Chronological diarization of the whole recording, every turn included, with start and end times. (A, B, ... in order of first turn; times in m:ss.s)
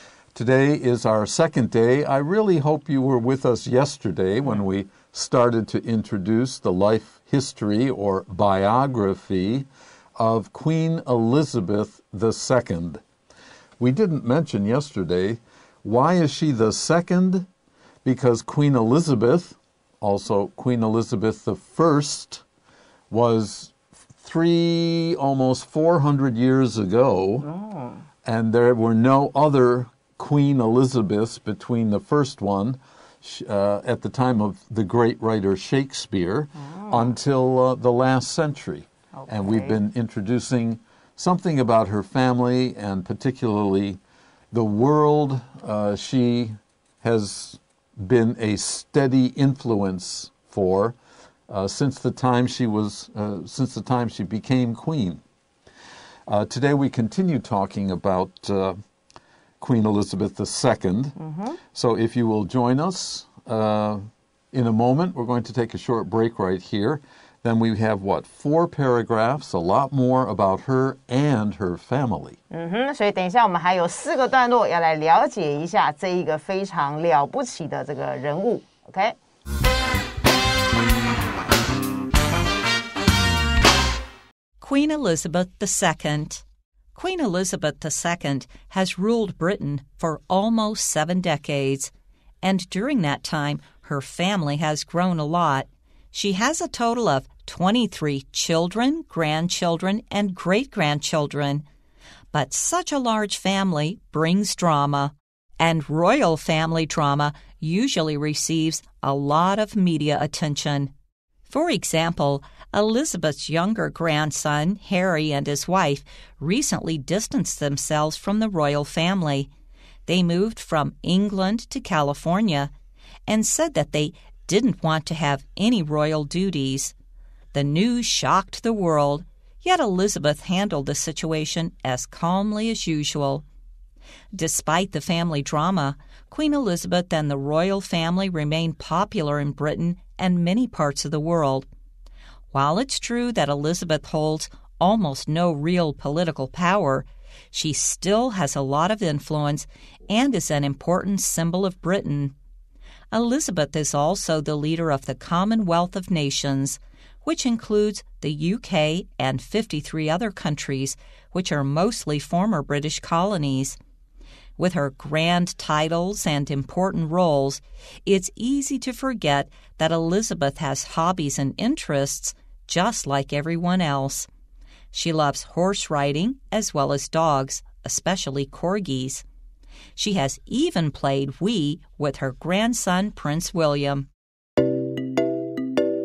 0:00.3-0:13.0 A
0:13.8-0:17.5 A
0:18.0-0:22.4 A
0:23.1-0:27.4 A
0:27.4-0:28.0 B
0:28.2-0:44.0 A
0:36.6-0:37.1 B
0:39.2-0:39.8 B
0:44.5-0:51.0 A
0:51.5-0:55.2 A
0:56.3-0:58.8 A
0:59.6-1:01.2 A
1:01.2-1:01.6 B
1:01.7-1:12.4 A
1:12.5-1:19.2 B
1:24.6-1:26.4 C
1:26.9-1:31.9 C
1:32.4-1:41.6 C
1:42.3-1:50.9 C
1:51.5-1:59.5 C
2:00.0-2:02.7 C
2:03.3-2:06.9 C
2:07.5-2:13.4 C
2:14.3-2:21.7 C
2:22.5-2:32.3 C
2:33.1-2:43.8 C
2:44.6-2:54.3 C
2:54.9-2:59.2 C
3:00.0-3:04.1 C